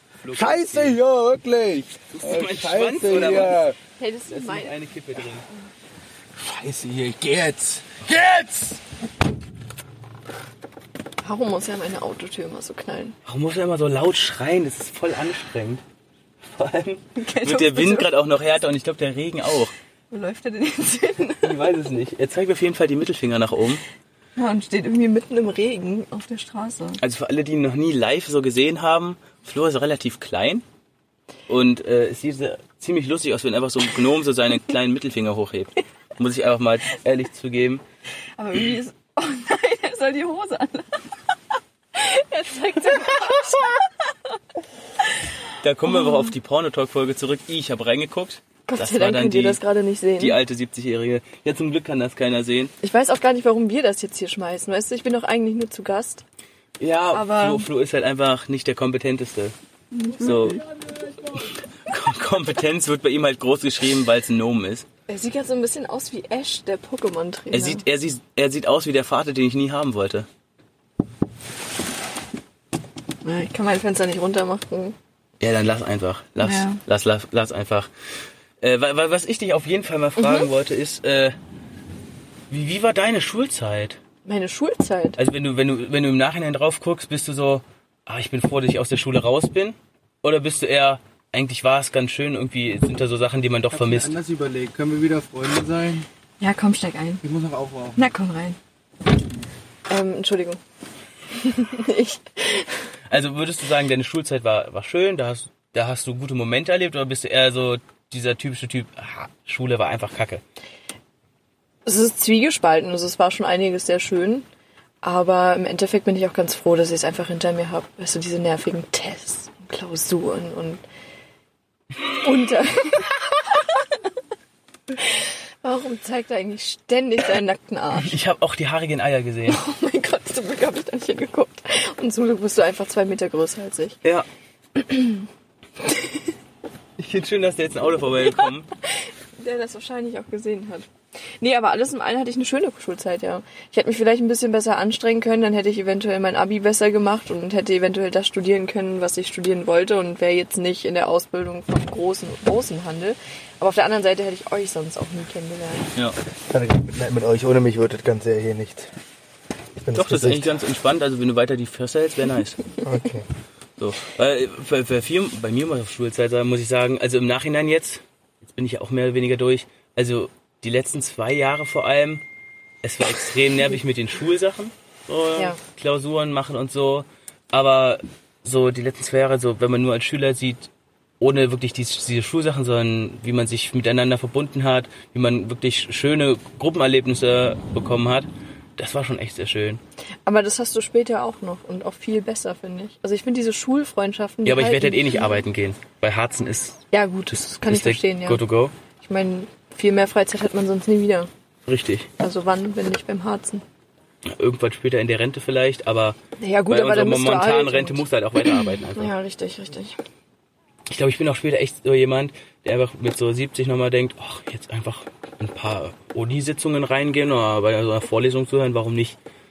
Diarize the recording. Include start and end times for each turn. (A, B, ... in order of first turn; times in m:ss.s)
0:00.2-0:01.0 A
0:00.3-0:03.8 B
0:02.1-0:03.6 A
0:04.0-0:04.8 C
0:04.3-0:05.5 A
0:06.4-0:08.8 B
0:11.2-0:13.2 C
0:13.3-0:15.8 A
0:16.4-0:19.7 A
0:17.2-0:18.1 C
0:20.1-0:21.6 C
0:21.4-0:23.8 A
0:24.4-0:27.0 C
0:27.0-0:30.6 A
0:31.5-0:37.8 A
0:38.4-0:41.1 C
0:42.0-0:44.1 C
0:45.6-0:49.6 A
0:48.7-0:50.4 C
0:50.2-0:52.7 A
0:52.8-0:56.2 C
0:56.8-0:59.5 A
0:57.1-0:57.7 C
1:00.0-1:00.4 C
1:00.2-1:00.6 A
1:01.4-1:04.9 A
1:05.1-1:07.8 C
1:07.5-1:10.3 A
1:13.2-1:15.0 C
1:15.4-1:17.9 A
1:16.4-1:16.8 C
1:18.6-1:21.4 A
1:20.2-1:20.5 C
1:22.5-1:24.0 A
1:24.3-1:25.2 C
1:25.2-1:34.1 A
1:33.7-1:36.1 B
1:36.4-1:37.2 C
1:37.2-1:38.0 B
1:38.0-1:38.6 C
1:39.9-1:40.6 C
1:41.4-1:42.7 C
1:43.1-1:50.4 A
1:51.9-1:54.5 C
1:55.0-2:00.8 C
2:02.1-2:03.9 C
2:05.0-2:08.1 C
2:08.0-2:09.6 A
2:09.5-2:14.0 C
2:14.8-2:15.3 C
2:17.0-2:18.7 A
2:19.4-2:20.9 C
2:21.4-2:35.9 C
2:36.5-2:38.9 B
2:39.8-2:40.5 B
2:39.9-2:42.6 A
2:42.8-2:43.3 B
2:43.8-2:52.2 A
2:52.8-3:00.7 A
3:01.2-3:09.8 A
3:10.3-3:15.4 C
3:14.4-3:16.8 A
3:16.9-3:18.4 C
3:17.6-3:18.7 A
3:19.0-3:21.3 C
3:21.7-3:22.1 A
3:22.2-3:23.6 C
3:24.3-3:26.2 A
3:26.4-3:30.0 C
3:26.7-3:29.1 A
3:30.9-3:39.2 A